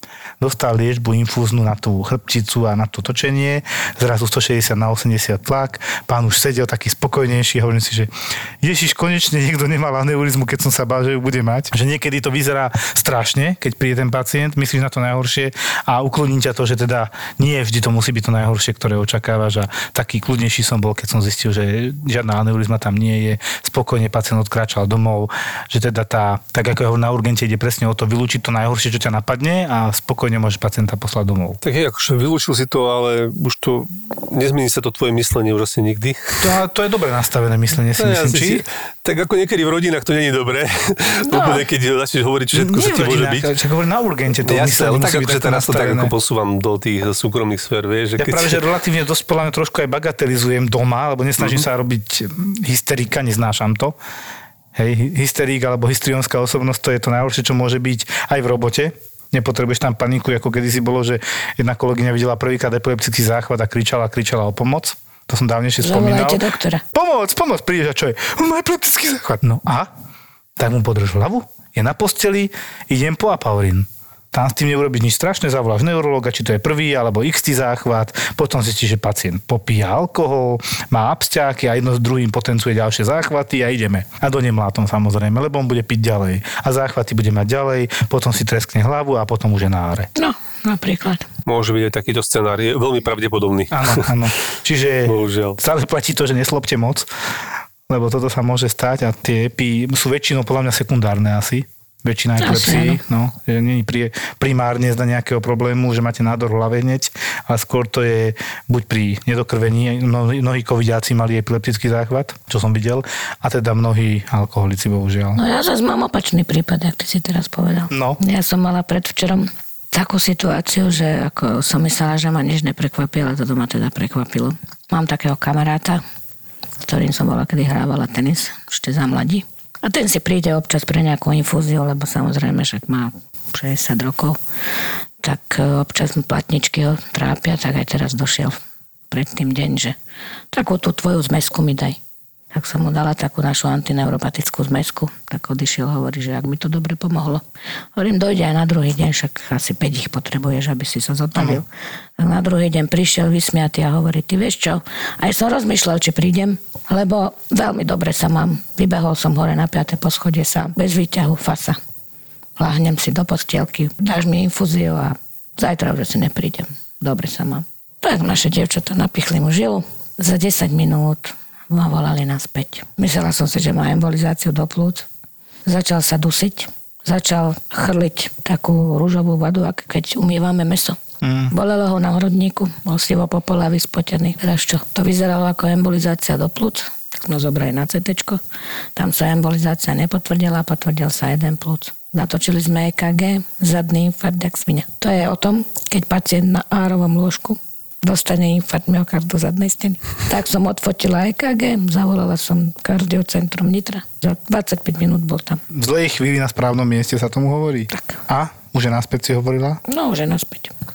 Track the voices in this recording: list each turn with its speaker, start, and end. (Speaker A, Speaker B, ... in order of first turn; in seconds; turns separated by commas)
Speaker A: 0.4-31.6, Speaker B: 31.6-36.5, Speaker A: 36.4-38.6, Speaker B: 38.0-43.5, Speaker A: 41.3-41.6, Speaker A: 42.5-46.1, Speaker B: 44.4-48.6, Speaker A: 48.2-54.0, Speaker A: 54.8-69.9, Speaker C: 65.8-66.8, Speaker A: 70.6-90.1, Speaker C: 90.2-91.3, Speaker B: 91.5-94.1, Speaker A: 93.7-97.1, Speaker B: 95.1-95.6, Speaker A: 97.9-115.4, Speaker C: 102.4-103.0, Speaker C: 115.4-126.0, Speaker A: 117.9-118.2, Speaker C: 126.8-134.4, Speaker C: 135.2-138.6, Speaker C: 139.1-139.9, Speaker C: 140.5-142.0, Speaker C: 142.5-147.4, Speaker C: 148.0-151.7, Speaker A: 151.3-151.6, Speaker C: 152.2-161.8, Speaker C: 162.6-175.1, Speaker C: 175.7-181.0, Speaker A: 181.2-181.5, Speaker C: 181.5-188.4, Speaker C: 189.0-205.6, Speaker A: 205.7-209.8, Speaker C: 207.9-208.2, Speaker C: 209.9-210.7